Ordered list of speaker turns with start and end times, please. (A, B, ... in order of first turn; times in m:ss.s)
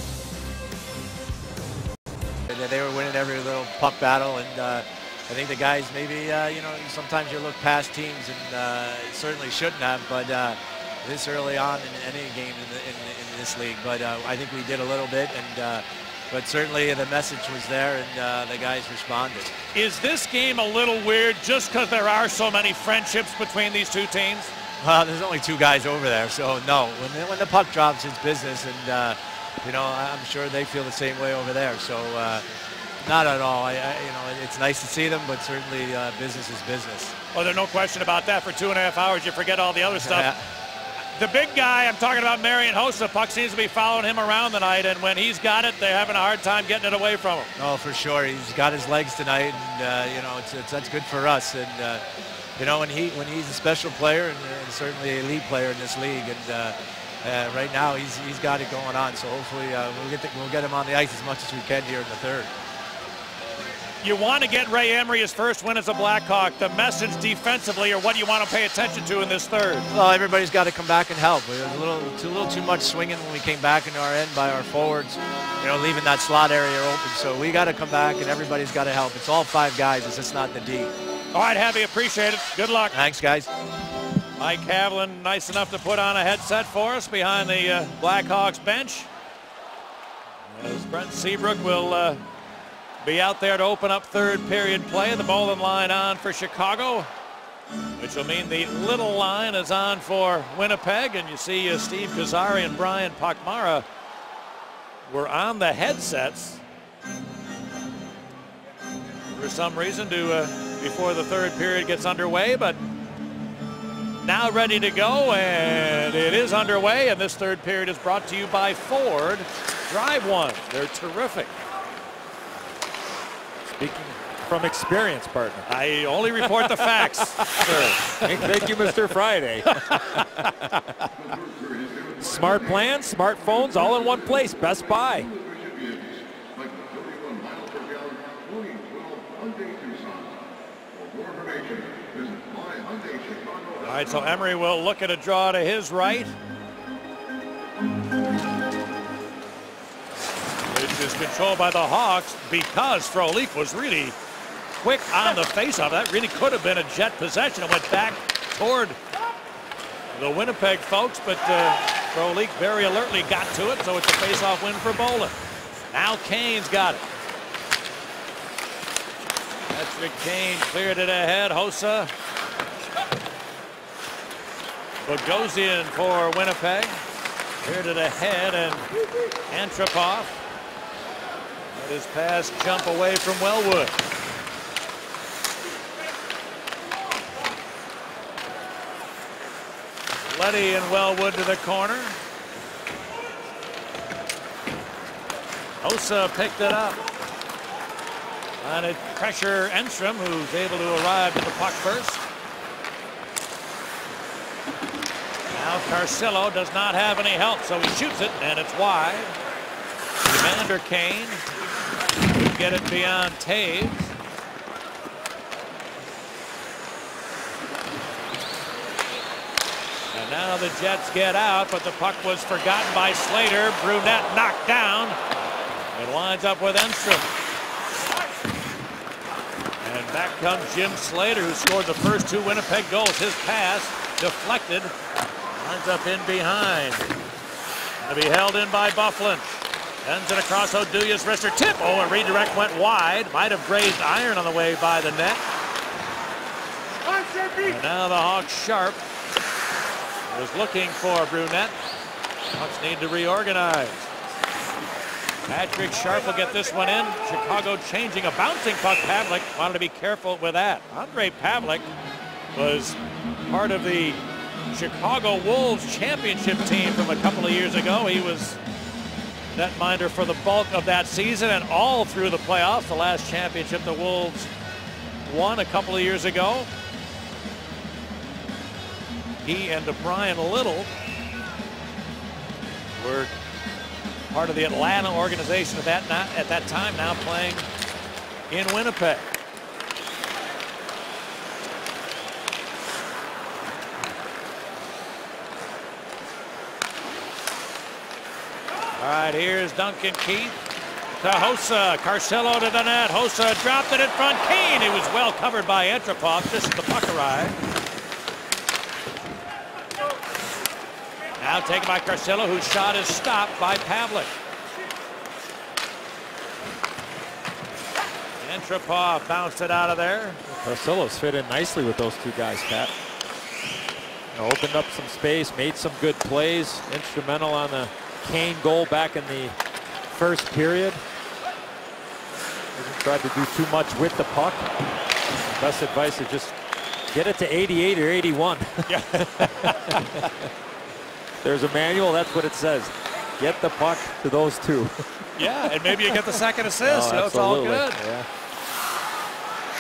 0:02.5-0:19.5 A
0:19.7-0:24.5 B
0:24.8-0:32.4 A
0:33.0-0:37.2 A
0:37.3-0:40.3 B
0:40.0-0:40.4 A
0:41.2-0:47.5 B
0:47.6-0:52.0 A
0:52.6-1:02.5 A
1:04.0-1:09.9 B
1:09.9-1:20.9 A
1:21.3-1:23.0 B
1:22.9-1:23.5 A
1:24.4-1:29.1 B
1:30.5-1:32.2 B
1:33.0-1:37.1 B
1:38.0-1:43.9 B
1:45.1-1:46.6 B
1:49.3-1:52.8 B
1:54.2-2:01.6 B
2:03.7-2:05.7 C
2:05.7-2:08.7 B
2:08.2-2:09.8 C
2:09.7-2:11.1 B
2:11.2-2:12.8 D
2:12.2-2:15.3 C
2:13.9-2:24.4 D
2:23.8-2:26.3 B
2:30.7-2:34.2 B
2:34.8-2:39.0 B
2:40.1-2:45.4 B
2:45.9-2:47.1 B
2:49.7-2:52.1 B
2:55.0-2:57.0 B
2:57.6-2:58.9 B
2:59.5-3:00.4 B
3:01.7-3:04.0 B
3:10.3-3:12.2 B
3:15.8-3:17.0 B
3:18.6-3:22.2 B
3:25.5-3:29.4 B
3:30.2-3:31.5 B
3:32.3-3:34.1 B
3:40.1-3:45.2 B
3:45.9-3:47.3 B
3:49.8-3:54.9 B
3:55.5-3:57.1 B
3:58.0-3:59.4 B
4:00.0-4:05.4 B
4:07.6-4:09.0 B
4:10.3-4:11.8 B
4:12.5-4:14.1 B
4:15.5-4:21.9 B
4:22.5-4:28.6 B
4:29.5-4:34.5 B
4:35.3-4:36.7 B
4:39.4-4:40.9 B
4:43.0-4:43.3 B
4:44.3-4:47.7 B
4:48.5-4:49.3 B
4:59.0-5:00.6 B
5:01.2-5:07.6 B
5:11.4-5:14.3 B
5:18.4-5:20.4 B
5:20.5-5:22.9 C
5:24.3-5:29.6 C
5:30.1-5:31.0 C
5:32.8-5:34.7 C
5:35.5-5:36.6 C
5:37.1-5:40.3 C
5:38.9-5:40.3 B
5:41.4-5:45.1 C
5:45.4-5:48.0 B
5:46.8-5:48.3 C